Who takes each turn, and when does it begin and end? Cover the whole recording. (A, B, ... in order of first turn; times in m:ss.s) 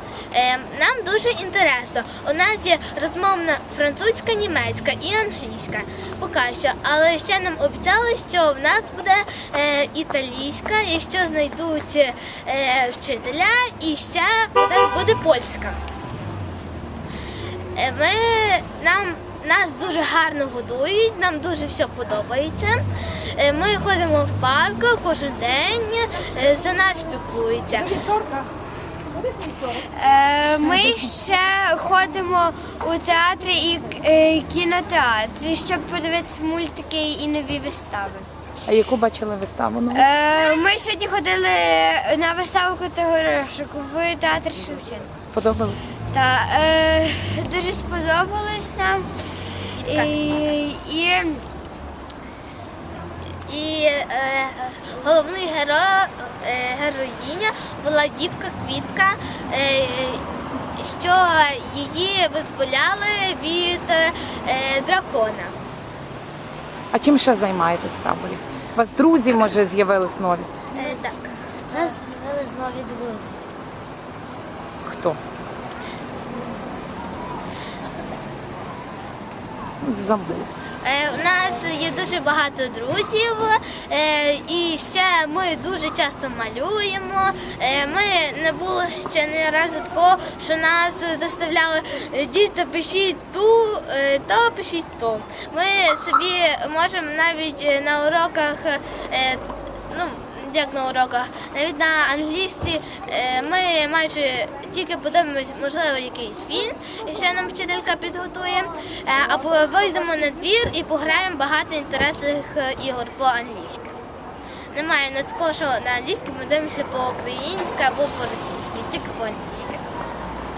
0:00.3-0:15.8 A
0:17.8-0:28.0 A
0:29.7-0:38.3 B
0:38.7-0:40.1 C
0:39.9-0:45.1 B
0:45.3-0:45.8 C
0:46.1-0:49.1 B
0:49.8-0:50.1 A
0:49.9-0:51.4 B
0:53.4-1:05.5 A
1:06.9-1:10.5 C
1:10.7-1:11.9 A
1:11.7-1:13.4 B
1:14.8-1:15.2 C
1:19.8-1:20.5 C
1:20.8-1:53.9 A
1:54.7-1:59.9 A